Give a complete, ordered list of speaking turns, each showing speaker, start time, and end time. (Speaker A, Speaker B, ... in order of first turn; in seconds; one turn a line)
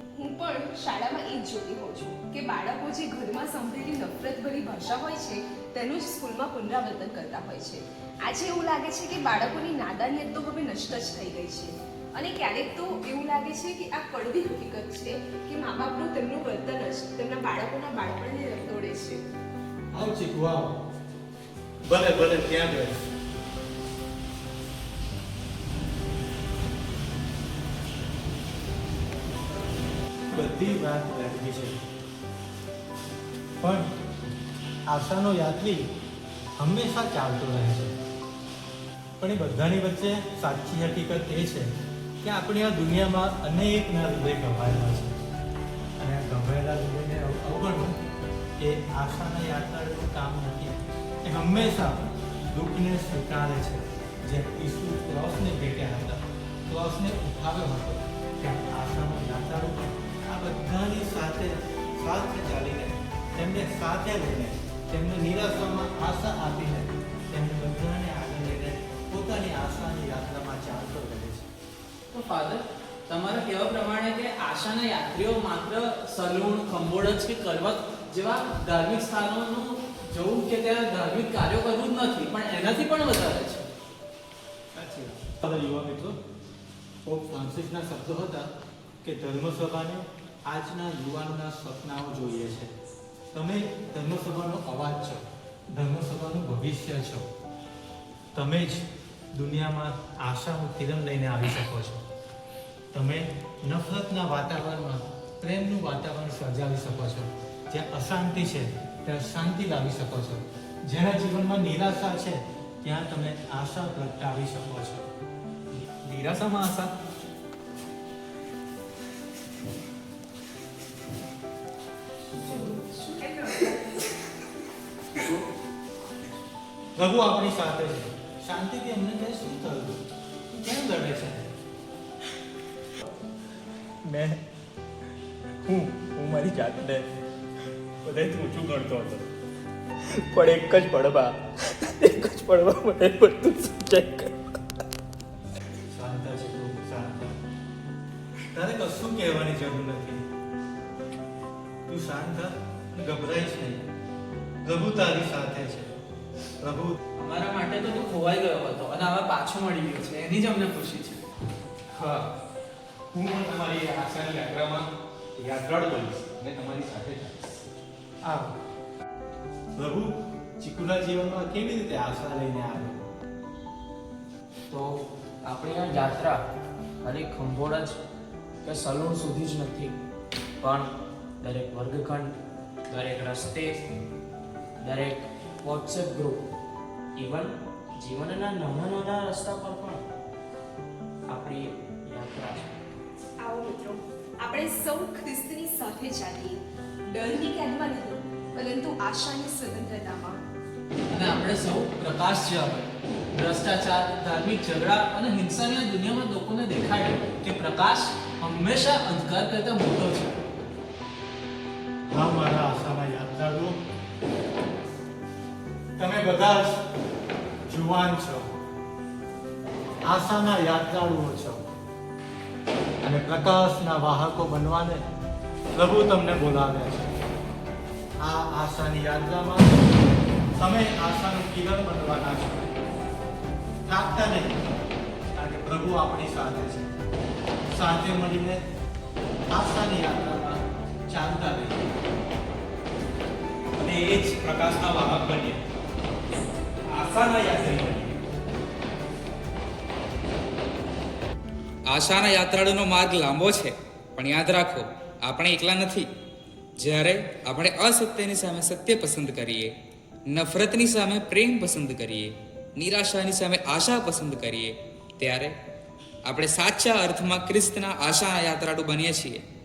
Speaker A: 0.2-19.2
Speaker B: 19.9-20.8
Speaker B: 21.9-23.1
Speaker B: 30.3-31.8
Speaker B: 33.6-33.9
Speaker B: 34.9-35.9
Speaker B: 36.6-38.0
Speaker B: 39.2-41.7
Speaker B: 42.2-45.2
Speaker B: 46.0-48.0
Speaker B: 48.6-71.5
Speaker C: 72.1-83.7
Speaker B: 84.7-86.2
Speaker B: 87.0-88.5
Speaker B: 89.0-92.7
Speaker B: 93.3-97.3
Speaker B: 98.3-102.0
Speaker B: 102.9-115.1
Speaker D: 116.1-116.9
Speaker A: 122.3-124.0
Speaker B: 127.0-131.5
Speaker D: 134.1-134.4
Speaker D: 135.7-137.1
Speaker D: 138.0-139.3
Speaker D: 140.1-144.3
Speaker B: 145.9-147.4
Speaker B: 148.5-150.3
Speaker B: 151.9-153.8
Speaker B: 154.6-156.0
Speaker B: 156.6-157.0
Speaker C: 157.2-161.2
Speaker D: 161.9-162.3
Speaker D: 163.1-167.4
Speaker B: 168.2-168.5
Speaker B: 169.8-173.0
Speaker E: 174.7-176.4
Speaker E: 177.0-178.0
Speaker E: 178.6-180.0
Speaker E: 180.6-182.4
Speaker E: 182.9-183.8
Speaker E: 184.8-186.4
Speaker E: 187.2-190.0
Speaker E: 191.3-192.8
Speaker A: 193.4-200.4
Speaker C: 201.1-210.4
Speaker B: 212.1-213.8
Speaker B: 216.0-216.8
Speaker B: 217.7-218.5
Speaker B: 220.0-221.6
Speaker B: 223.0-225.0
Speaker B: 225.7-227.1
Speaker B: 228.2-229.9
Speaker B: 230.6-232.7
Speaker B: 233.9-234.6
Speaker B: 235.4-236.9
Speaker B: 237.7-238.6
Speaker B: 239.5-241.9
Speaker D: 243.8-245.6
Speaker D: 246.9-248.2
Speaker F: 251.9-256.1
Speaker F: 256.8-259.7
Speaker F: 260.3-265.6
Speaker F: 266.3-269.4